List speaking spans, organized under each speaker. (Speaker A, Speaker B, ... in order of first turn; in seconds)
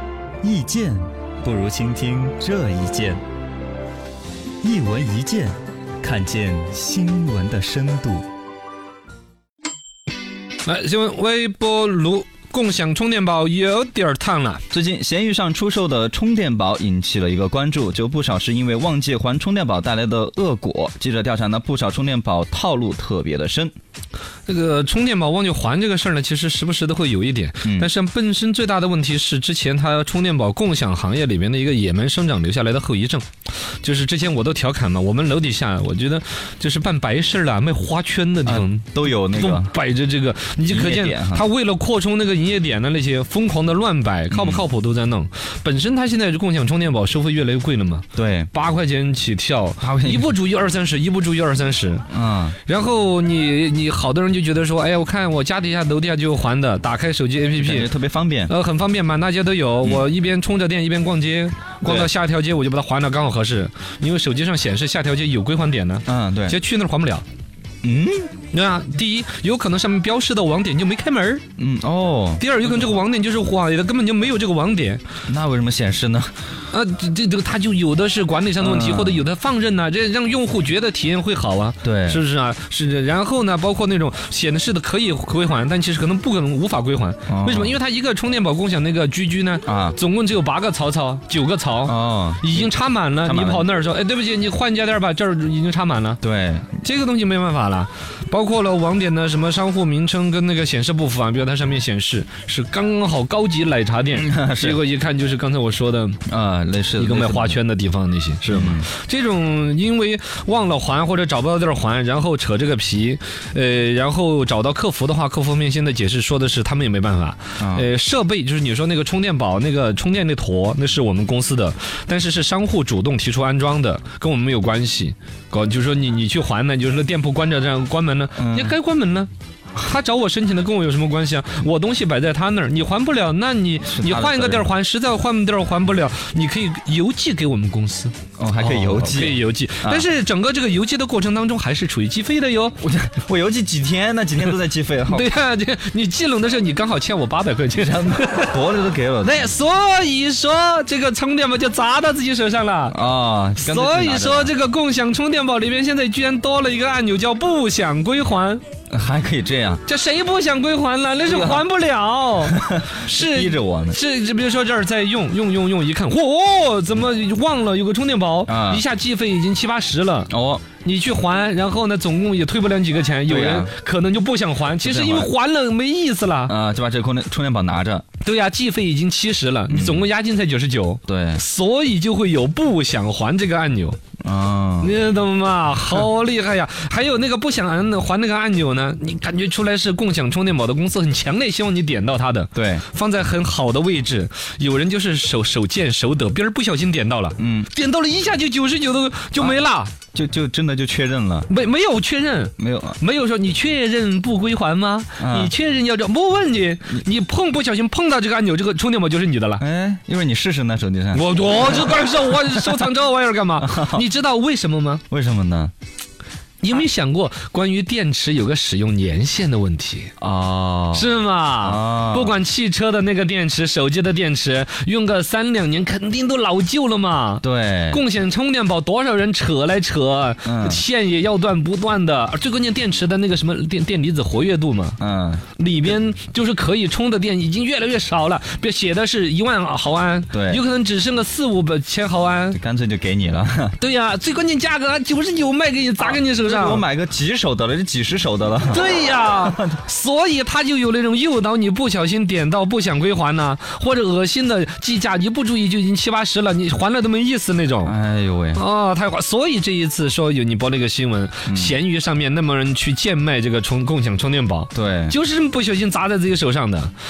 Speaker A: 0.4-3.2, 4.6-8.2, 14.7-23.7, 27.6-27.9, 38.5-39.7, 40.7-41.5, 44.3-44.7, 48.1-48.5, 49.8-50.3, 52.1-52.5, 57.6-58.5, 61.8-62.1, 66.1-66.5, 67.8-68.3, 71.6-72.4, 75.3-76.3, 78.6-79.3, 81.8-82.2, 87.3-87.8, 89.7-90.0, 91.9-92.7, 93.2-93.7, 96.2-96.8, 104.1-104.8, 106.3-107.6, 108.5-108.9, 117.6-117.9, 128.4-128.8, 133.8-134.7, 138.4-140.1, 142.8-145.3, 147.7-149.5, 152.9-154.5, 158.9-159.8, 161.3-161.7, 162.5-164.0, 168.5-168.8, 170.3-170.6, 173.3-173.7, 174.8-175.3, 176.5-178.1, 179.7-180.1, 181.1-181.4, 184.2-185.0, 192.5-192.8, 197.4-197.7, 199.4-199.6, 200.1-201.5, 202.6-203.0, 205.2-205.5, 209.6-211.9, 212.6-212.8, 213.6-214.0, 215.1-215.7, 220.2-222.4, 227.4-228.0, 230.4-230.8, 235.0-235.4, 240.3-240.6, 242.5-243.8, 246.0-248.8, 249.4-249.7, 257.8-258.6, 261.4-261.8, 264.8-265.1
Speaker B: 10.7-14.6, 24.5-33.2, 33.8-52.0, 52.7-57.9, 58.5-67.2, 68.5-71.4, 72.4-75.0, 76.7-96.2, 96.8-106.2, 107.0-142.8, 145.1-148.6, 149.2-152.9, 153.6-158.6, 159.9-176.5, 178.2-184.0, 184.8-199.9, 201.5-209.6, 211.1-215.0, 216.6-220.1, 220.9-235.0, 235.6-242.6, 243.8-246.8, 248.7-257.9, 258.6-266.9